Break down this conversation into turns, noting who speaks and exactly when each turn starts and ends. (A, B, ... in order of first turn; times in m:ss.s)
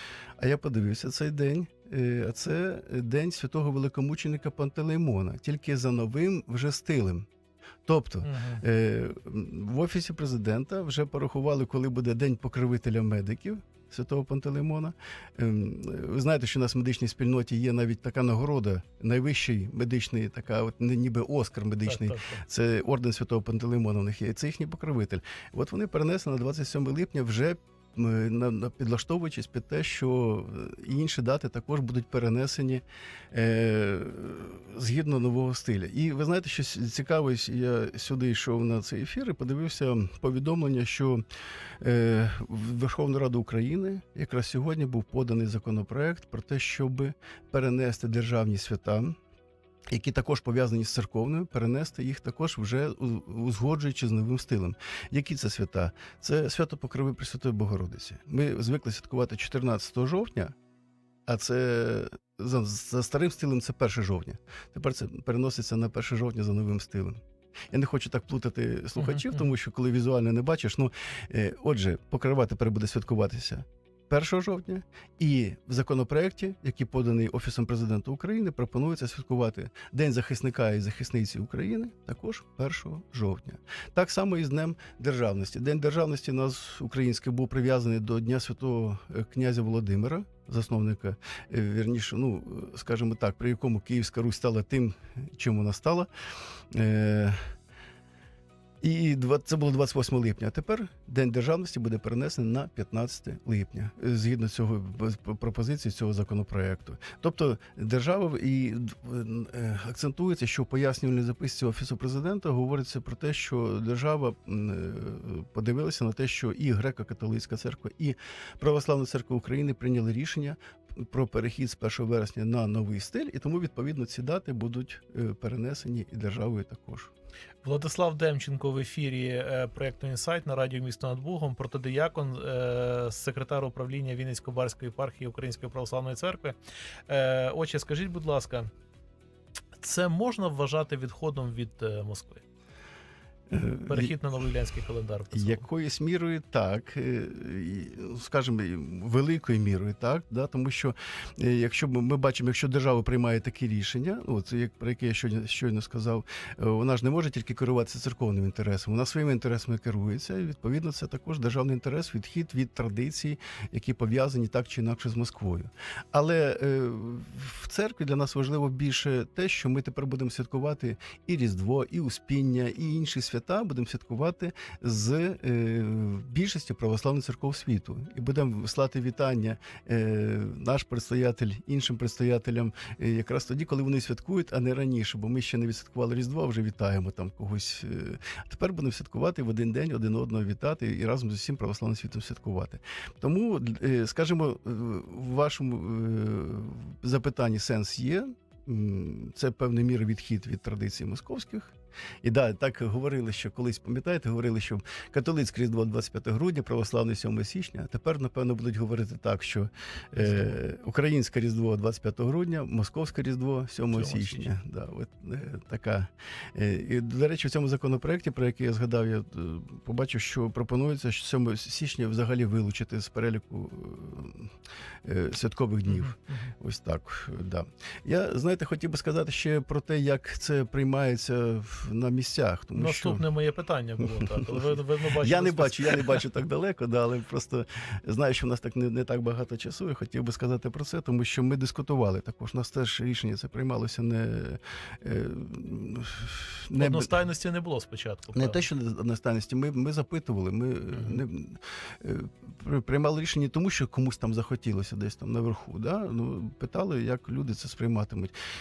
0:00.4-0:07.2 A
0:07.8-0:41.2 A
0:08.2-0:08.6 B
0:21.8-0:22.4 B
0:41.8-0:49.2 A
0:49.9-1:00.5 A
1:01.2-1:07.2 A
1:07.7-1:36.1 A
1:09.0-1:09.4 B
1:36.7-1:37.4 A
1:38.8-2:07.1 A
2:07.6-2:16.6 B
2:17.1-2:18.7 B
2:19.8-2:22.4 B
2:23.5-2:24.2 A
2:23.9-2:25.6 B
2:25.3-3:44.5 A
3:30.2-3:30.6 B
3:33.9-3:34.5 B
3:45.0-3:53.2 A
3:45.9-3:46.5 B
3:52.8-3:56.2 B
3:54.0-3:54.5 A
3:55.2-4:07.1 A
4:06.8-4:08.6 B
4:08.3-4:18.3 A
4:10.9-4:11.2 B